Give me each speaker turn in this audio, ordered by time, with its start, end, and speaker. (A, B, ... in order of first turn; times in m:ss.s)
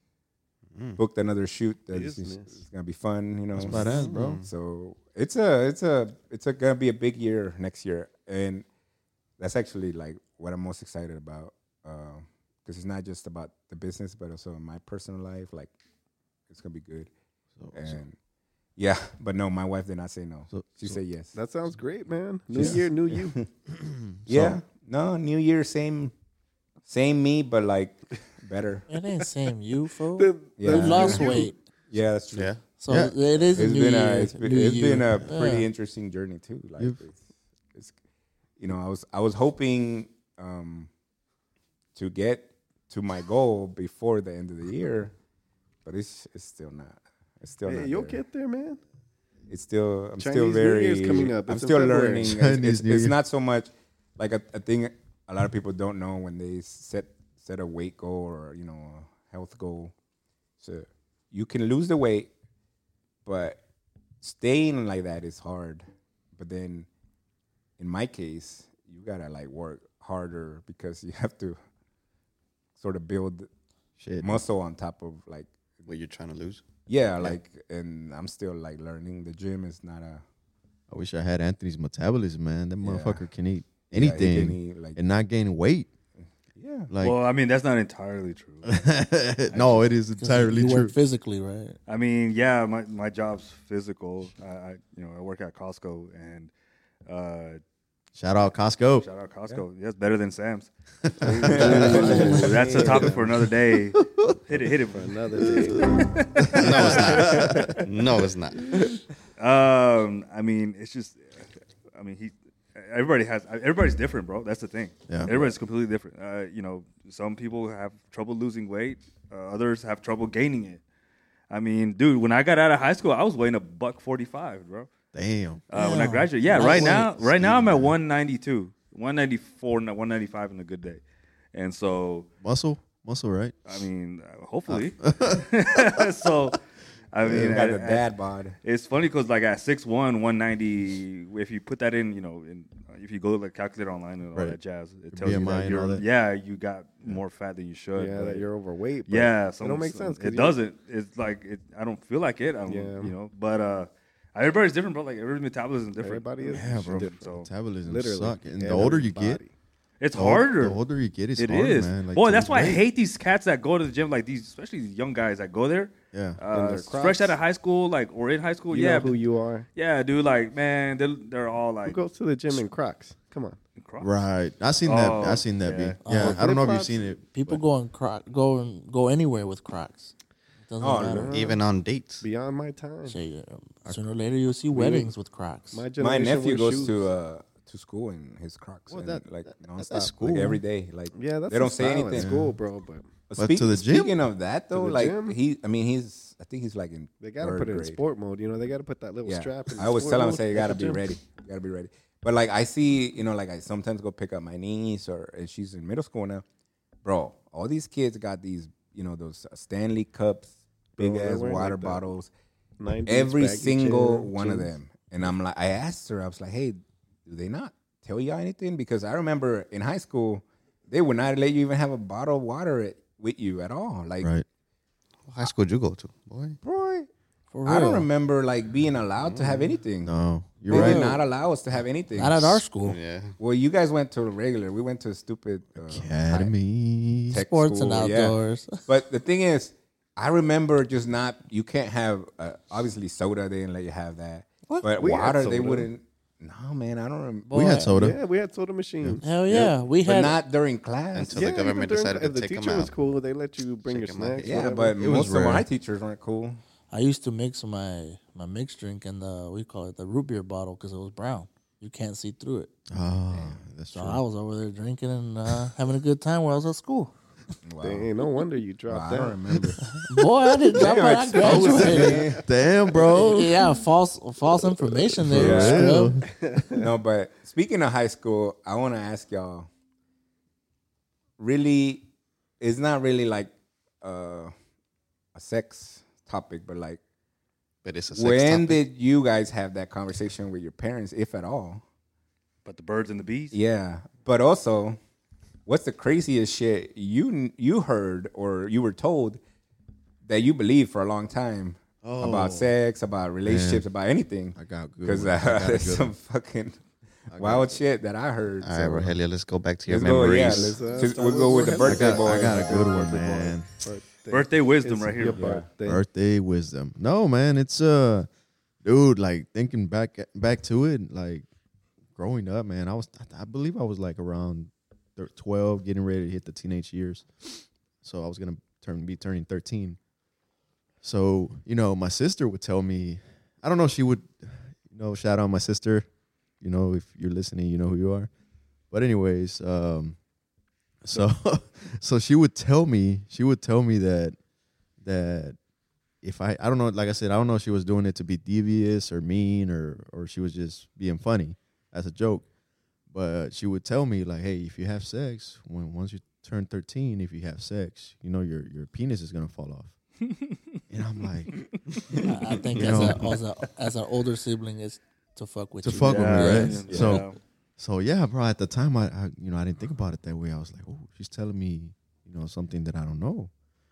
0:00.7-0:01.0 A
0:01.0-0:08.6 B
0:01.9-0:02.5 C
0:03.6-0:04.4 D
0:03.6-0:04.5 A
0:09.4-0:15.7 B
0:16.5-0:17.1 B
0:17.6-0:18.0 D
0:17.7-0:18.2 B
0:18.8-0:21.3 B
0:20.5-0:21.0 D
0:21.3-0:23.4 C
0:22.5-0:23.5 B
0:22.5-0:22.8 D
0:23.8-0:24.6 D
0:24.3-0:26.1 B
0:26.8-0:28.9 B
0:28.9-0:31.6 E
0:30.2-0:31.5 C
0:30.6-0:32.5 B
0:32.3-0:32.6 A
0:32.8-0:35.7 E
0:32.9-0:33.1 D
0:33.5-0:37.9 B
0:38.6-0:40.9 B
0:41.9-0:45.1 B
0:45.8-0:48.2 B
0:47.6-0:48.8 C
0:49.5-0:59.9 B
0:50.2-0:52.4 C
0:52.2-0:53.2 D
1:00.6-1:02.3 B
1:03.2-1:03.6 B
1:04.2-1:06.9 B
1:07.8-1:11.6 B
1:12.8-1:13.5 B
1:14.0-1:15.5 B
1:14.0-1:14.4 D
1:15.8-1:16.6 A
1:16.9-1:20.2 B
1:20.9-1:25.9 D
1:22.8-1:23.3 B
1:23.9-1:25.0 B
1:26.6-1:26.9 B
1:26.9-1:27.2 D
1:27.0-1:28.8 F
1:28.6-1:30.9 D
1:29.5-1:29.9 F
1:30.2-1:31.8 E
1:31.9-1:36.5 F
1:37.1-1:37.6 F
1:38.2-1:39.1 D
1:39.0-1:40.7 F
1:41.2-1:42.3 D
1:41.2-1:43.3 C
1:41.4-1:43.1 B
1:41.5-1:47.5 F
1:44.0-1:44.4 D
1:44.9-1:46.1 C
1:45.4-1:47.8 D
1:46.5-1:48.6 A
1:46.8-1:47.5 C
1:49.4-2:00.8 F
1:55.1-1:55.3 D
2:01.5-2:04.9 F
2:05.1-2:05.6 D
2:05.7-2:11.0 F
2:05.7-2:07.0 E
2:06.5-2:08.0 D
2:11.5-2:12.3 F
2:12.4-2:13.5 D
2:13.6-2:16.6 F
2:14.7-2:15.5 D
2:17.1-2:18.1 F
2:17.2-2:17.6 D
2:17.2-2:18.6 B
2:18.6-2:28.5 F
2:25.1-2:26.0 D
2:27.9-2:30.6 C
2:29.1-2:37.5 F
2:32.6-2:33.1 C
2:36.0-2:37.3 C
2:36.5-2:39.4 D
2:37.8-2:39.5 C
2:40.0-2:40.8 F
2:40.1-2:42.8 D
2:41.4-2:49.2 F
2:46.1-2:46.4 D
2:46.5-2:47.4 C
2:48.7-2:49.6 C
2:49.8-2:52.0 F
2:51.8-2:53.6 C
2:53.8-2:54.1 F
2:54.0-2:57.6 D
2:54.8-2:56.0 F
2:56.0-2:56.6 E
2:56.1-2:57.0 C
2:57.3-3:00.1 E
3:00.7-3:01.3 E
3:00.8-3:01.3 B
3:01.1-3:01.6 C
3:01.3-3:02.2 A
3:02.2-3:03.2 C
3:03.0-3:05.8 E
3:04.7-3:05.1 C
3:05.7-3:07.0 C
3:06.0-3:12.4 B
3:08.9-3:10.6 D
3:11.1-3:13.1 C
3:12.1-3:12.6 D
3:13.3-3:18.0 B
3:13.4-3:14.1 D
3:14.7-3:15.4 C
3:17.2-3:21.0 C
3:19.2-3:26.4 B
3:27.0-3:32.3 B
3:31.0-3:32.0 C
3:32.8-3:34.7 C
3:33.0-3:44.3 B
3:45.3-3:46.6 A
3:46.6-3:47.1 B
3:47.5-3:48.1 E
3:47.6-3:50.1 B
3:49.2-3:49.6 A
3:50.0-3:51.2 D
3:50.7-3:52.6 B
3:50.7-3:51.2 E
3:52.1-3:53.0 E
3:52.8-3:53.4 A
3:53.4-3:56.5 B
3:55.8-3:57.4 D
3:57.3-4:07.6 B
3:57.3-3:58.8 E
4:05.0-4:05.9 C
4:07.4-4:08.0 E
4:07.5-4:08.2 D
4:07.9-4:09.4 C
4:09.2-4:10.4 E
4:09.5-4:11.4 B
4:11.1-4:12.9 A
4:11.3-4:15.0 C
4:13.8-4:14.6 A
4:14.4-4:16.6 B
4:15.0-4:15.6 D
4:16.9-4:22.7 E
4:22.9-4:24.2 D
4:23.9-4:27.1 E
4:27.6-4:28.1 B
4:27.8-4:29.7 C
4:28.9-4:29.9 B
4:30.0-4:32.2 E
4:30.7-4:32.4 B
4:31.4-4:32.4 C
4:32.4-4:33.7 D
4:33.1-4:36.2 E
4:35.2-4:36.3 D
4:35.3-4:35.9 B
4:36.4-4:36.9 C
4:36.7-4:39.7 B
4:41.4-4:42.0 B
4:42.6-4:44.5 B
4:45.3-4:47.0 B
4:47.8-4:48.8 A
4:48.1-4:51.8 B
4:52.6-4:53.6 F
4:53.5-4:55.0 B
4:55.6-4:59.4 B
5:00.2-5:09.1 B
5:02.0-5:02.7 D
5:03.4-5:03.8 D
5:04.5-5:06.1 D
5:07.3-5:07.8 D
5:08.6-5:10.8 A
5:09.9-5:12.9 B
5:10.4-5:16.0 C
5:11.8-5:13.7 D
5:14.3-5:15.5 F
5:15.3-5:15.7 B
5:15.8-5:18.3 D
5:18.8-5:21.4 D
5:22.1-5:30.0 D
5:31.0-5:36.1 D
5:36.6-5:38.3 D
5:38.9-5:40.2 D
5:41.0-5:44.4 D
5:45.0-5:45.6 D
5:46.2-5:52.4 D
5:53.1-5:59.9 D
6:00.2-6:00.6 F
6:00.9-6:01.7 D
6:02.2-6:06.8 E
6:02.8-6:03.3 D
6:05.8-6:13.5 D
6:06.1-6:07.4 F
6:06.9-6:07.2 B